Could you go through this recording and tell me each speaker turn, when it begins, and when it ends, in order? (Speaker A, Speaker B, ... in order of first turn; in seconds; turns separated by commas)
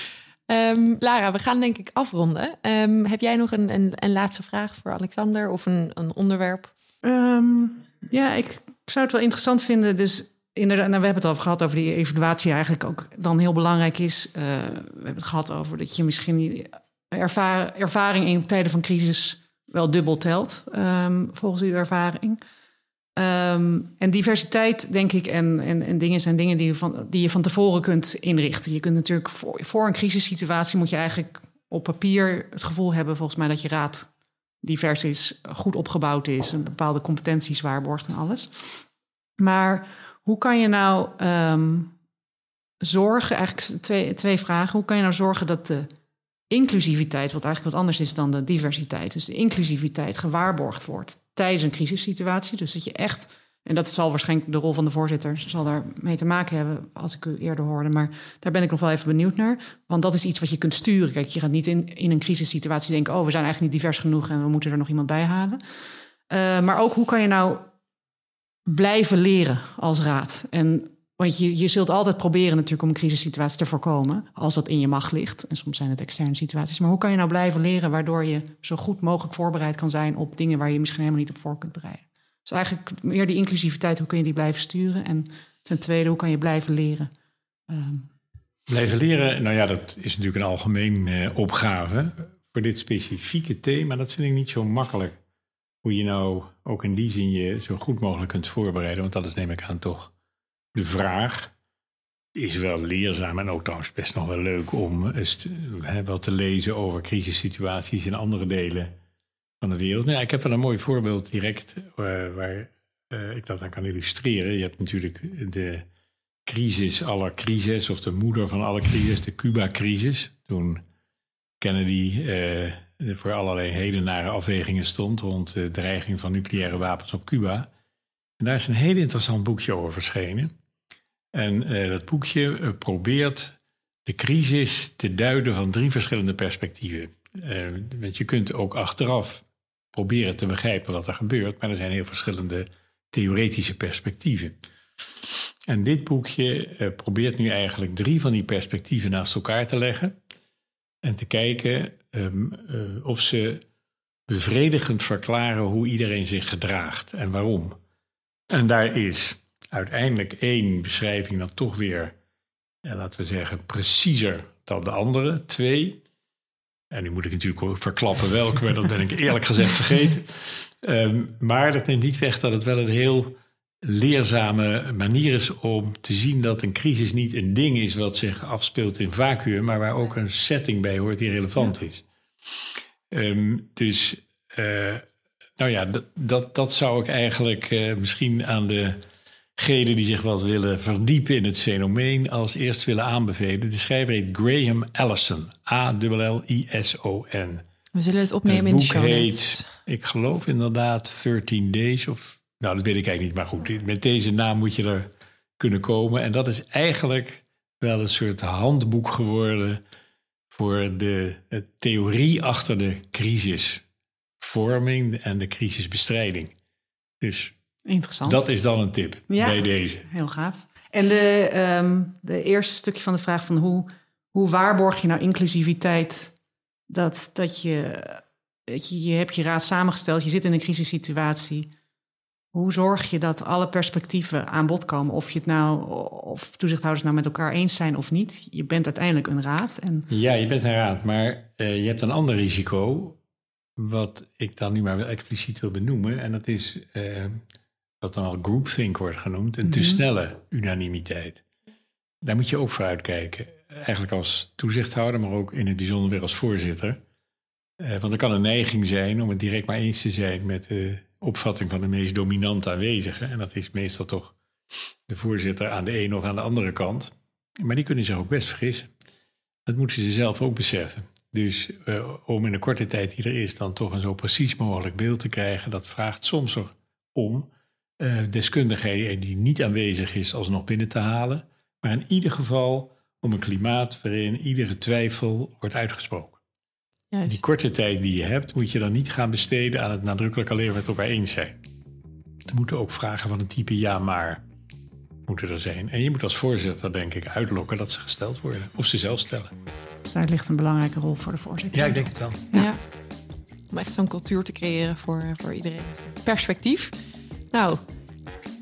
Speaker A: 0.5-6.7, Speaker B: 7.0-22.4, Speaker B: 23.2-34.1, Speaker B: 34.6-38.8, Speaker B: 39.4-41.9, Speaker B: 42.8-45.9, Speaker B: 46.5-65.6, Speaker B: 66.3-67.7, Speaker B: 68.7-87.1, Speaker B: 87.7-88.1, Speaker C: 88.7-95.2, Speaker C: 95.8-100.1, Speaker C: 100.7-101.5, Speaker C: 102.3-109.0, Speaker C: 109.6-115.9, Speaker C: 116.5-120.8, Speaker C: 121.6-127.7, Speaker C: 128.4-130.5, Speaker C: 131.3-144.6, Speaker C: 145.7-150.2, Speaker C: 151.0-153.6, Speaker C: 154.3-157.8, Speaker C: 158.5-162.1, Speaker C: 162.8-166.0, Speaker C: 166.9-182.1, Speaker C: 183.1-185.0, Speaker C: 185.6-189.0, Speaker C: 189.6-197.6, Speaker A: 197.9-199.7, Speaker C: 198.4-205.1, Speaker C: 205.6-209.8, Speaker C: 210.5-213.8, Speaker C: 214.4-216.5, Speaker C: 217.2-217.5, Speaker B: 217.8-218.4, Speaker C: 218.2-220.1, Speaker B: 219.3-226.3, Speaker B: 226.9-231.7, Speaker B: 232.5-240.1, Speaker C: 240.1-243.2, Speaker C: 243.8-247.4, Speaker C: 248.0-251.4, Speaker B: 249.6-250.0, Speaker C: 252.2-257.0, Speaker C: 257.8-264.4, Speaker C: 265.1-268.9, Speaker C: 269.6-286.4, Speaker A: 287.1-287.4, Speaker C: 287.3-291.6, Speaker C: 292.5-294.4, Speaker C: 295.3-299.5, Speaker B: 300.0-302.7, Speaker C: 301.7-302.4, Speaker A: 302.5-302.8, Speaker A: 303.7-306.9, Speaker A: 307.5-307.8